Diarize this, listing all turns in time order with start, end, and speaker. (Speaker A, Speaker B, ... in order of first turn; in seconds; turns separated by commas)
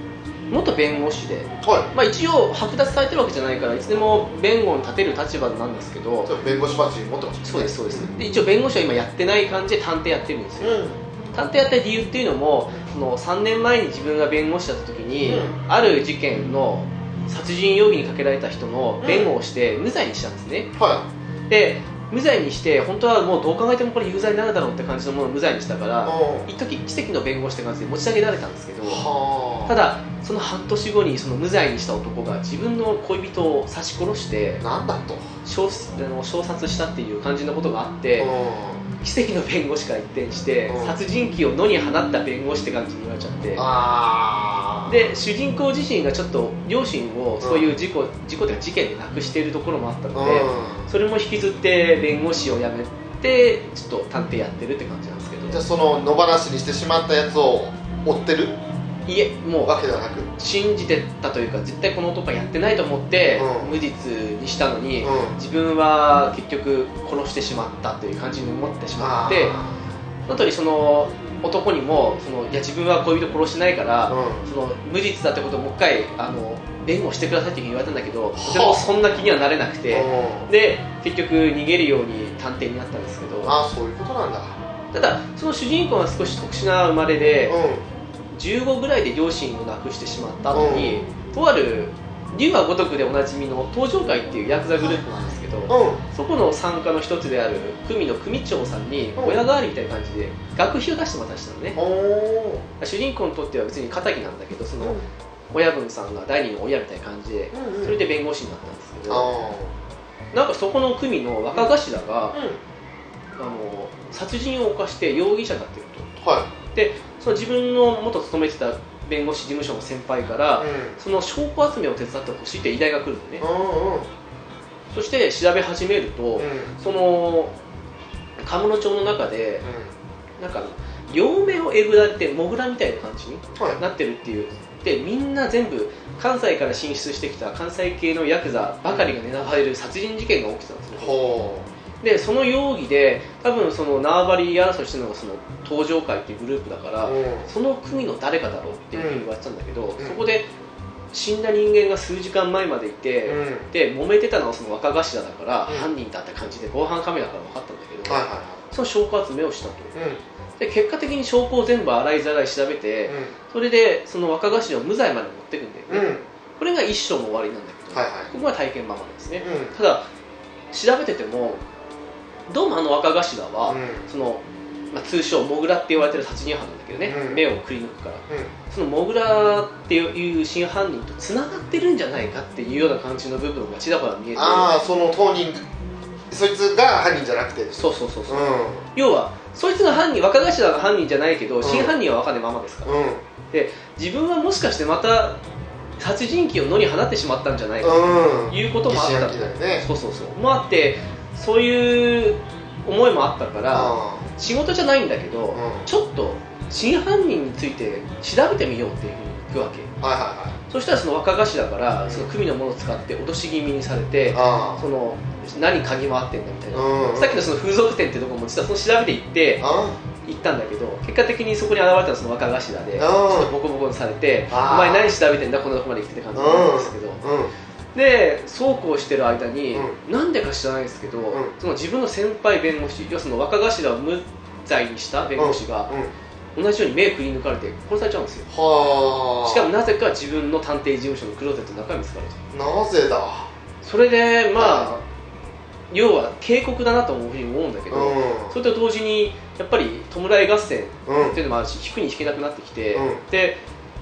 Speaker A: 0.5-6.3, Speaker B: 1.6-1.9, Speaker B: 6.2-8.1, Speaker A: 7.4-10.8, Speaker B: 10.6-11.0, Speaker A: 11.3-20.7, Speaker B: 15.3-15.6, Speaker B: 19.0-19.3, Speaker B: 20.8-21.1, Speaker A: 21.5-29.1, Speaker B: 26.0-26.5, Speaker B: 28.8-29.8, Speaker A: 29.6-34.6, Speaker B: 34.6-35.2, Speaker A: 35.4-38.3, Speaker B: 38.2-38.8, Speaker A: 39.0-43.6, Speaker B: 40.7-41.0, Speaker B: 43.5-45.0, Speaker A: 44.9-55.6, Speaker B: 47.4-47.7, Speaker B: 50.1-50.9, Speaker B: 55.5-58.6, Speaker A: 59.0-59.8, Speaker B: 59.6-60.3, Speaker A: 60.4-69.6, Speaker B: 63.3-63.8, Speaker B: 65.0-65.4, Speaker B: 69.0-69.8, Speaker A: 70.3-83.5, Speaker B: 74.1-74.5, Speaker B: 78.3-78.9, Speaker B: 79.9-80.5, Speaker B: 83.4-84.5, Speaker A: 84.9-87.6, Speaker B: 87.5-87.8, Speaker A: 88.3-101.8, Speaker B: 90.5-91.0, Speaker B: 95.7-96.0, Speaker B: 101.8-102.6, Speaker A: 102.8-105.0, Speaker B: 104.8-105.1, Speaker A: 105.5-109.3, Speaker B: 107.5-108.0, Speaker B: 109.1-109.7, Speaker A: 110.3-112.4, Speaker B: 112.3-112.6, Speaker A: 113.4-116.1, Speaker B: 116.2-116.5, Speaker A: 116.7-123.4, Speaker B: 120.6-121.0, Speaker B: 123.4-124.1, Speaker A: 124.9-127.5, Speaker B: 126.3-126.8, Speaker A: 128.4-129.7, Speaker B: 129.6-129.9, Speaker A: 130.4-141.2, Speaker B: 133.6-133.8, Speaker B: 141.0-141.7, Speaker A: 142.0-150.5, Speaker B: 147.0-147.5, Speaker B: 148.9-149.2, Speaker A: 151.1-159.9, Speaker B: 153.2-153.7, Speaker B: 158.0-158.6, Speaker B: 159.9-160.2, Speaker A: 160.6-170.1, Speaker B: 163.1-163.3, Speaker B: 165.9-166.2, Speaker B: 167.9-168.3, Speaker B: 169.4-169.7, Speaker A: 170.7-171.6, Speaker A: 172.5-184.7, Speaker B: 173.7-174.1, Speaker B: 177.1-177.4, Speaker B: 184.3-185.7, Speaker B: 186.3-188.8, Speaker A: 187.7-192.9, Speaker B: 191.6-191.9, Speaker B: 192.8-193.2, Speaker A: 193.5-195.4, Speaker A: 196.0-209.9, Speaker B: 197.8-199.8, Speaker B: 203.7-204.3, Speaker B: 205.5-205.9, Speaker B: 210.0-210.6, Speaker A: 210.7-219.7, Speaker B: 214.3-214.8, Speaker B: 216.7-217.5, Speaker B: 219.6-220.0, Speaker A: 220.2-227.2, Speaker B: 222.9-223.5, Speaker B: 224.5-225.1, Speaker B: 226.3-227.5, Speaker A: 227.9-235.9, Speaker B: 229.7-230.0, Speaker B: 235.4-236.1, Speaker A: 236.5-238.5, Speaker B: 238.5-239.7, Speaker A: 239.4-242.4, Speaker B: 242.5-243.5, Speaker A: 243.8-245.0, Speaker B: 244.6-244.9, Speaker A: 245.9-253.6, Speaker B: 247.9-248.6, Speaker B: 251.1-251.4, Speaker B: 252.9-253.2